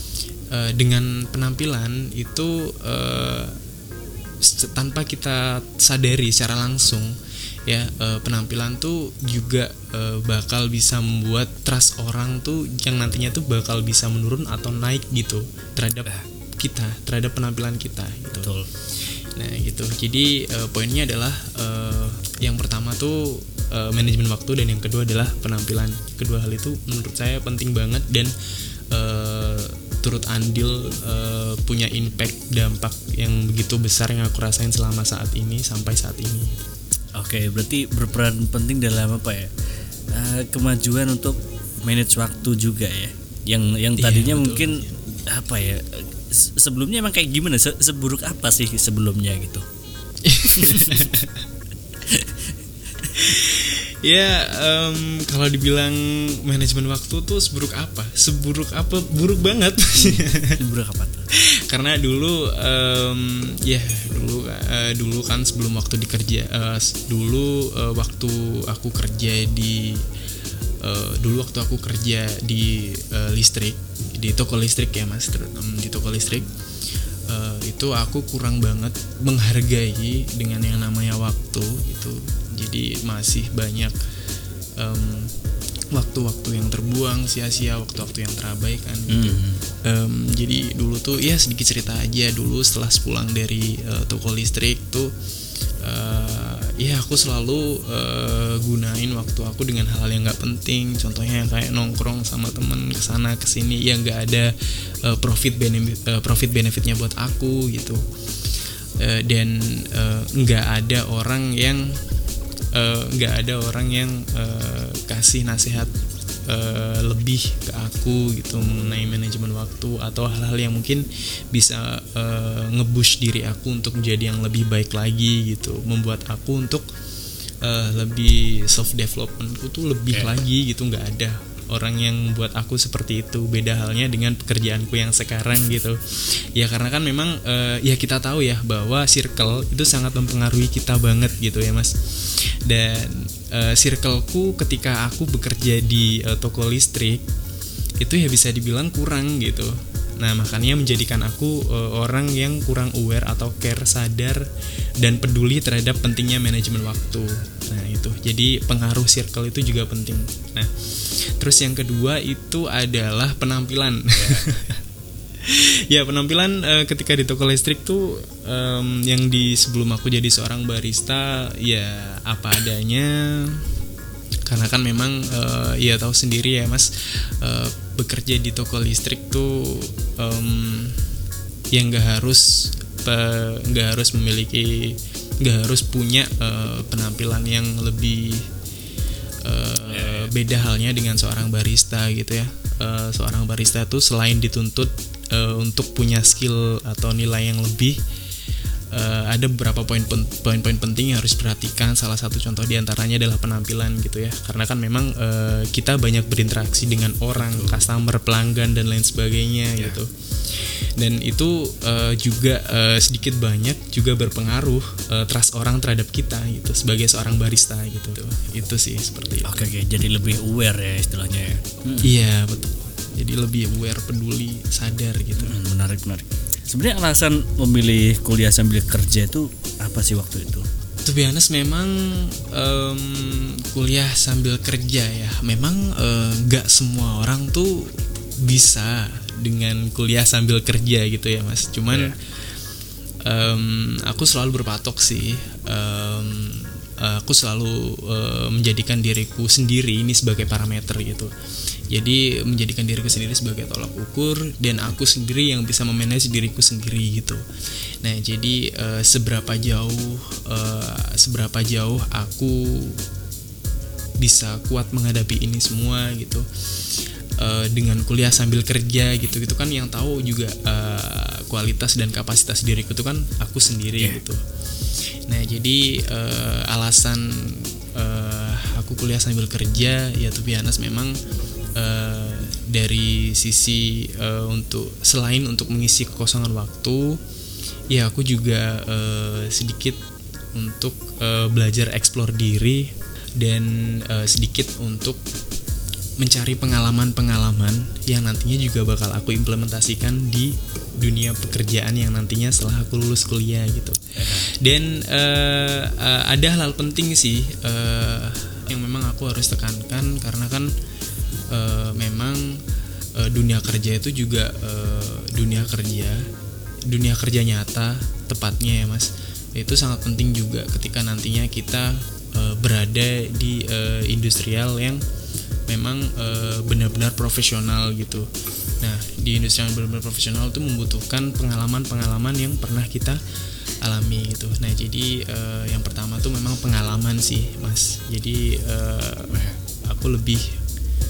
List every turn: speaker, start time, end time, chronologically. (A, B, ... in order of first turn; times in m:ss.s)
0:00.5-0:03.6 A
0:04.4-0:07.2 A
0:07.7-0:18.5 A
0:18.4-0:18.7 B
0:19.4-0:28.3 A
0:28.9-0:36.7 A
0:37.1-0:39.5 B
0:40.1-0:49.6 B
0:44.0-0:44.9 A
0:50.2-0:51.4 A
0:50.4-0:51.1 B
0:52.0-0:52.4 B
0:53.1-1:00.6 A
1:00.0-1:01.2 B
1:01.3-1:10.0 A
1:10.8-1:16.5 A
1:17.3-1:23.9 A
1:24.8-1:25.3 A
1:25.9-1:35.1 A
1:29.1-1:29.6 B
1:35.8-1:44.5 A
1:45.0-1:48.0 A
1:49.0-1:52.0 A
1:52.7-1:55.9 A
1:56.5-2:06.8 A
2:07.6-2:27.2 A
2:28.0-2:34.5 A
2:35.0-2:44.8 A
2:44.2-2:44.6 B
2:45.4-2:53.6 A
2:54.4-3:01.0 A
3:01.7-3:08.5 A
3:09.4-3:18.0 A
3:09.9-3:10.3 B
3:18.9-3:39.6 A
3:27.4-3:27.9 B
3:39.4-3:42.1 B
3:42.0-3:45.5 A
3:45.4-3:50.7 B
3:51.0-4:02.1 A
4:03.2-4:11.3 A
4:11.9-4:17.4 A
4:18.0-4:23.0 A
4:24.2-4:26.4 A
4:27.4-4:34.4 A
4:35.3-4:41.2 A
4:41.8-4:47.2 A
4:47.9-4:50.0 A
4:50.5-4:55.2 A
4:56.2-5:10.7 A
5:04.2-5:04.5 B
5:11.5-5:12.6 A
5:13.2-5:16.2 A
5:16.9-5:25.0 A
5:25.7-5:28.3 A
5:28.8-5:33.2 A
5:33.8-5:40.6 A
5:39.3-5:39.6 B